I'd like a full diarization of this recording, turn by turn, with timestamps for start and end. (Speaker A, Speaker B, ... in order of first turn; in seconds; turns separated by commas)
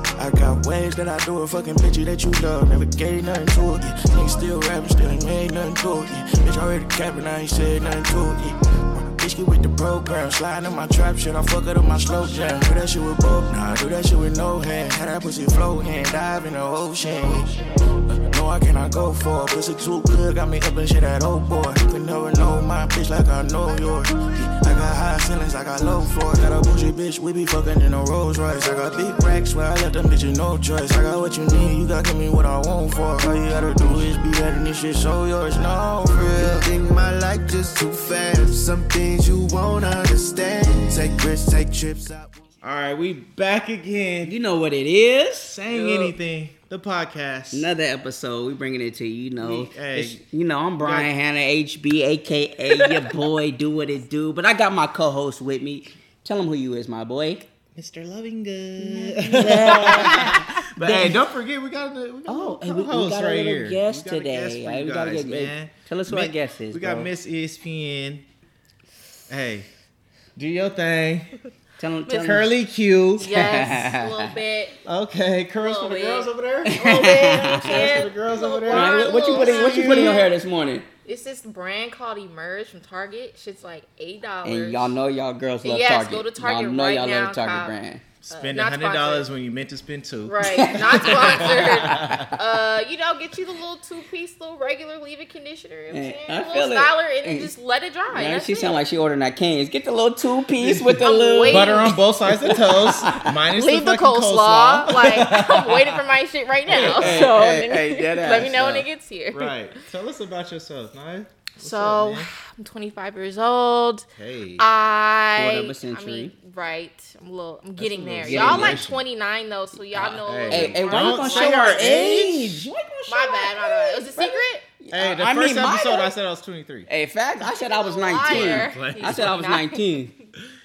Speaker A: 0.2-36.7, Speaker B: 36.3-42.5, Speaker C: 42.6-44.4, Speaker D: 44.2-45.6, Speaker C: 45.5-47.7, Speaker E: 45.7-46.1, Speaker D: 47.5-57.5, Speaker C: 49.4-50.2, Speaker C: 50.8-51.1, Speaker C: 57.8-68.2, Speaker D: 58.8-61.2, Speaker D: 62.3-67.1, Speaker C: 69.3-69.7, Speaker C: 70.4-71.3, Speaker D: 71.8-72.5, Speaker E: 72.1-72.4, Speaker C: 72.2-73.3, Speaker E: 73.2-74.8, Speaker D: 73.2-74.4, Speaker C: 74.8-80.3, Speaker E: 75.6-80.3, Speaker D: 76.7-78.0, Speaker D: 78.7-80.9, Speaker E: 81.0-85.0, Speaker D: 84.4-88.0, Speaker E: 85.6-87.7, Speaker C: 88.3-92.3, Speaker E: 88.3-89.3, Speaker E: 90.2-98.8, Speaker D: 90.4-92.4, Speaker D: 95.9-97.5, Speaker D: 98.1-103.3, Speaker C: 100.6-106.0, Speaker E: 101.0-102.0, Speaker E: 103.5-109.5, Speaker C: 106.7-107.3, Speaker D: 106.7-108.9, Speaker C: 109.3-112.3, Speaker E: 111.6-114.1, Speaker C: 114.2-114.7, Speaker E: 114.6-122.1, Speaker D: 115.3-116.3, Speaker C: 117.8-119.0, Speaker D: 118.2-118.9, Speaker D: 119.9-126.1, Speaker C: 120.2-122.7, Speaker E: 123.1-124.6, Speaker C: 124.9-126.9, Speaker D: 126.9-130.1, Speaker E: 127.4-130.1, Speaker C: 128.2-129.3